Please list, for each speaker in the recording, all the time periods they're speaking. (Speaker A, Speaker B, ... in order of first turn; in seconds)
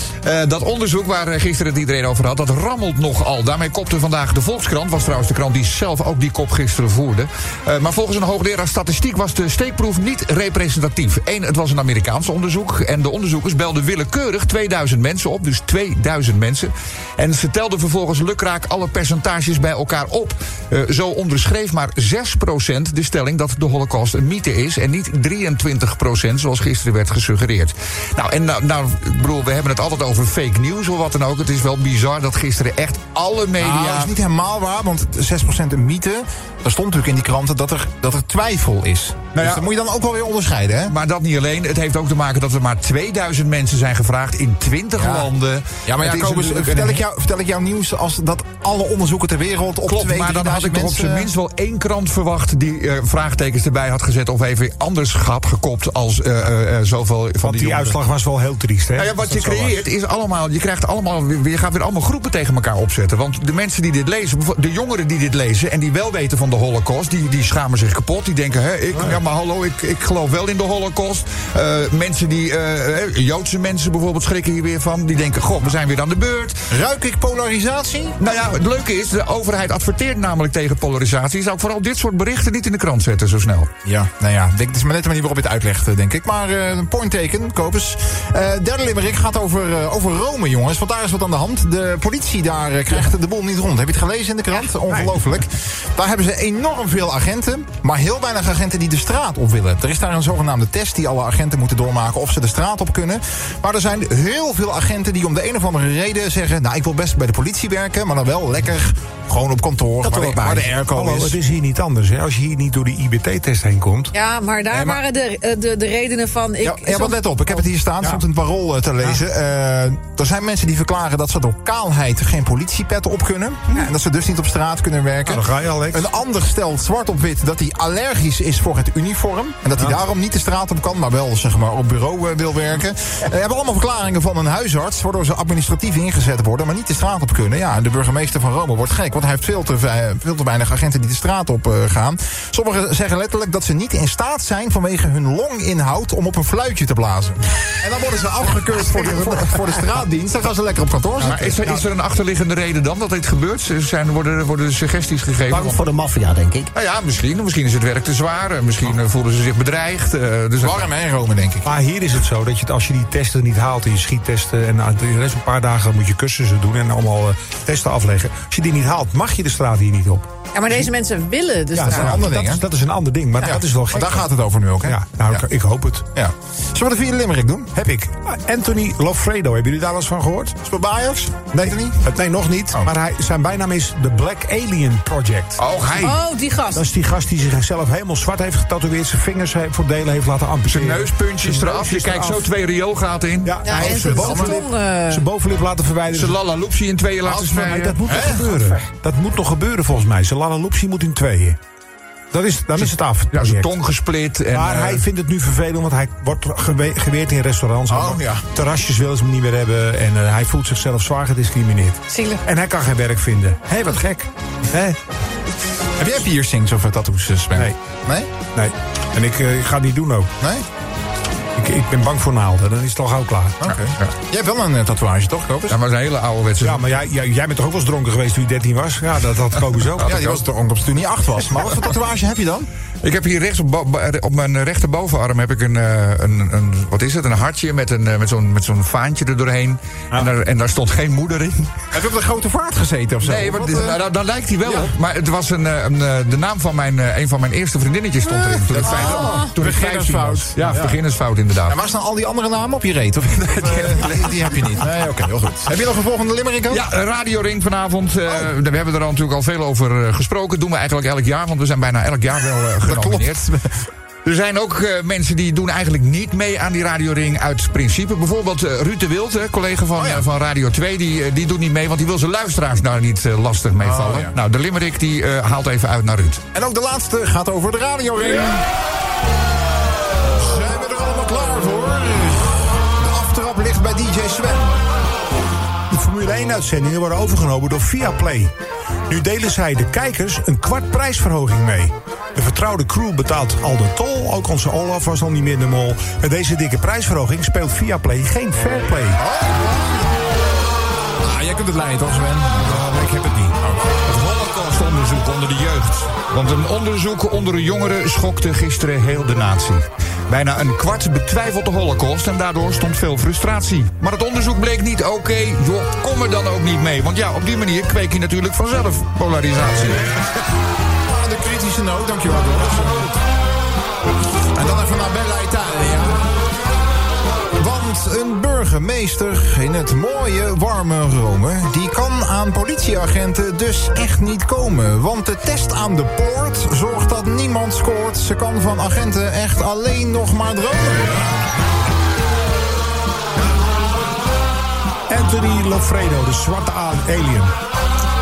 Speaker A: 0.2-34.1, 39.3-39.7, 40.9-47.0, 49.9-58.0, 59.0-76.6, 78.2-83.7, 151.2-155.8, 156.7-160.9, 185.6-186.2, 190.7-193.6, 196.1-198.0, 202.8-205.0, 223.7-224.1, 225.7-226.8, 230.0-230.4, 233.0-241.9, 243.2-251.8, 253.5-254.8, 256.7-263.4, 264.2-276.4, 302.6-320.1
Speaker B: 33.6-40.9, 45.0-45.3, 45.9-51.3, 76.7-78.1, 83.8-111.4, 114.7-115.0, 116.6-151.6, 160.6-161.7, 171.8-172.6, 173.4-175.4, 176.1-177.7, 180.6-182.0, 193.7-194.6, 198.0-198.8, 207.9-208.4, 216.0-218.3, 220.4-220.7, 223.6-225.8, 230.0-232.7, 241.9-244.0, 248.7-251.0, 251.7-256.8, 262.8-263.7, 269.9-270.2, 273.8-274.3, 276.5-278.7, 280.2-284.8, 299.2-300.1, 301.2-302.8, 303.6-304.0, 321.0-323.2, 324.5-326.2, 327.6-341.3
Speaker C: 57.4-59.8, 68.9-69.2, 94.8-95.3, 110.8-114.1, 125.2-126.1, 151.4-151.8, 161.6-170.3, 171.7-176.1, 177.7-180.6, 181.5-185.6, 186.7-192.5, 193.4-196.4, 197.3-201.6, 202.3-203.7, 204.5-215.0, 218.5-220.3, 221.5-223.6, 226.6-230.2, 285.9-288.5, 289.1-299.2, 302.7-303.5, 345.1-347.6
Speaker D: 110.0-110.7, 155.5-156.7
Speaker E: 114.1-117.6, 170.5-172.1, 186.0-186.9, 193.6-195.2, 212.1-212.4, 248.8-249.5